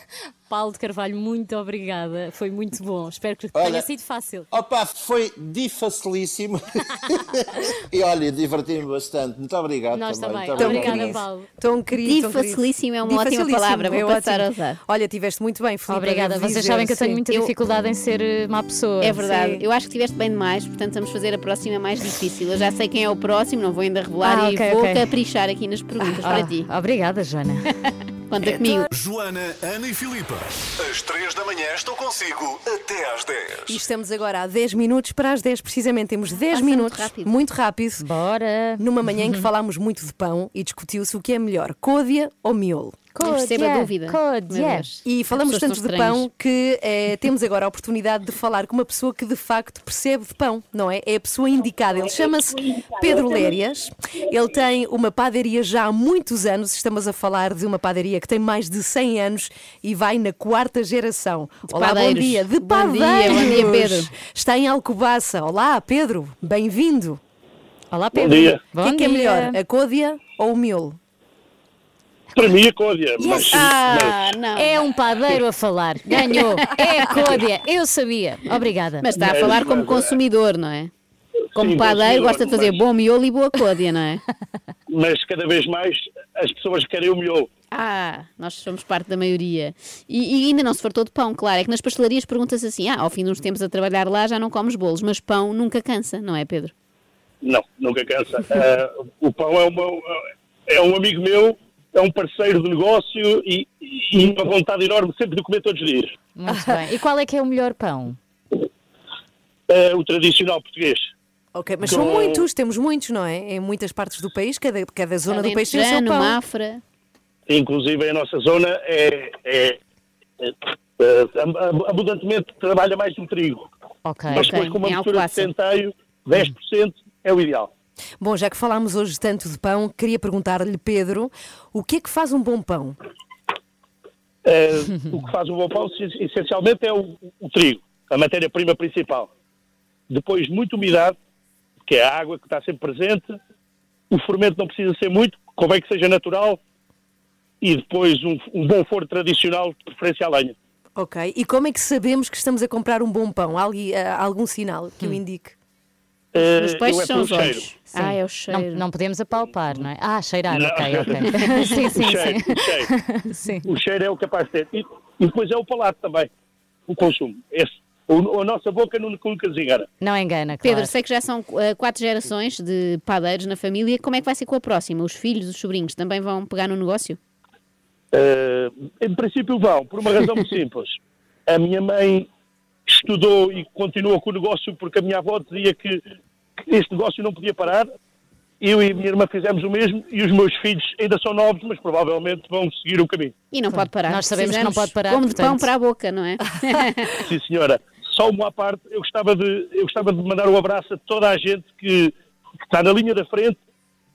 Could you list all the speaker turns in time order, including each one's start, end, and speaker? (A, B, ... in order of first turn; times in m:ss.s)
0:00.5-0:04.5 A
0:03.5-0:03.9 B
0:04.5-0:11.2 B
0:09.9-0:11.5 A
0:10.6-0:17.5 C
0:12.0-0:14.8 D
0:15.9-0:19.3 A
0:19.0-0:26.7 D
0:24.2-0:25.0 A
0:26.2-0:27.7 A
0:28.3-0:28.9 D
0:28.8-0:33.8 E
0:33.7-0:38.0 C
0:36.5-0:37.3 D
0:38.0-0:39.4 A
0:38.8-0:43.1 C
0:43.1-0:44.9 A
0:43.2-0:46.2 D
0:45.0-1:07.2 C
1:01.7-1:04.1 D
1:02.0-1:02.3 A
1:03.2-1:03.7 A
1:07.9-1:09.6 A
1:08.1-1:08.6 F
1:08.7-1:11.0 C
1:12.4-1:14.3 F
1:13.2-1:19.1 A
1:13.4-1:14.8 D
1:16.3-1:17.1 D
1:19.0-1:20.9 D
1:19.2-1:20.1 F
1:21.5-1:22.8 F
1:21.5-1:24.2 D
1:24.9-1:27.5 F
1:27.7-1:36.7 D
1:37.4-1:46.1 F
1:46.4-1:48.2 A
1:46.5-1:46.8 C
1:49.7-1:51.1 F
1:51.5-1:56.4 C
1:51.8-1:52.4 F
1:55.3-1:56.8 D
1:57.5-1:59.8 F
2:00.4-2:03.7 F
2:04.0-2:04.5 A
2:04.3-2:07.7 F
2:04.4-2:05.5 D
2:08.2-2:13.0 C
2:14.4-2:19.3 F
2:20.1-2:21.2 F
2:21.8-2:23.4 F
2:24.1-2:26.6 F
2:27.6-2:30.5 F
2:31.0-2:35.5 C
2:36.3-2:37.7 F
2:36.6-2:38.8 D
2:37.9-2:43.6 A
2:40.5-2:42.9 F
2:43.6-2:46.3 F
2:46.9-2:49.9 F
2:50.0-2:50.9 A
2:50.6-2:57.2 D
2:58.1-3:01.0 F
3:01.5-3:02.3 F
3:02.9-3:06.0 F
3:06.6-3:07.9 F
3:08.6-3:13.3 F
3:13.5-3:17.2 D
3:13.7-3:15.7 A
3:17.2-3:22.1 F
3:22.7-3:23.6 F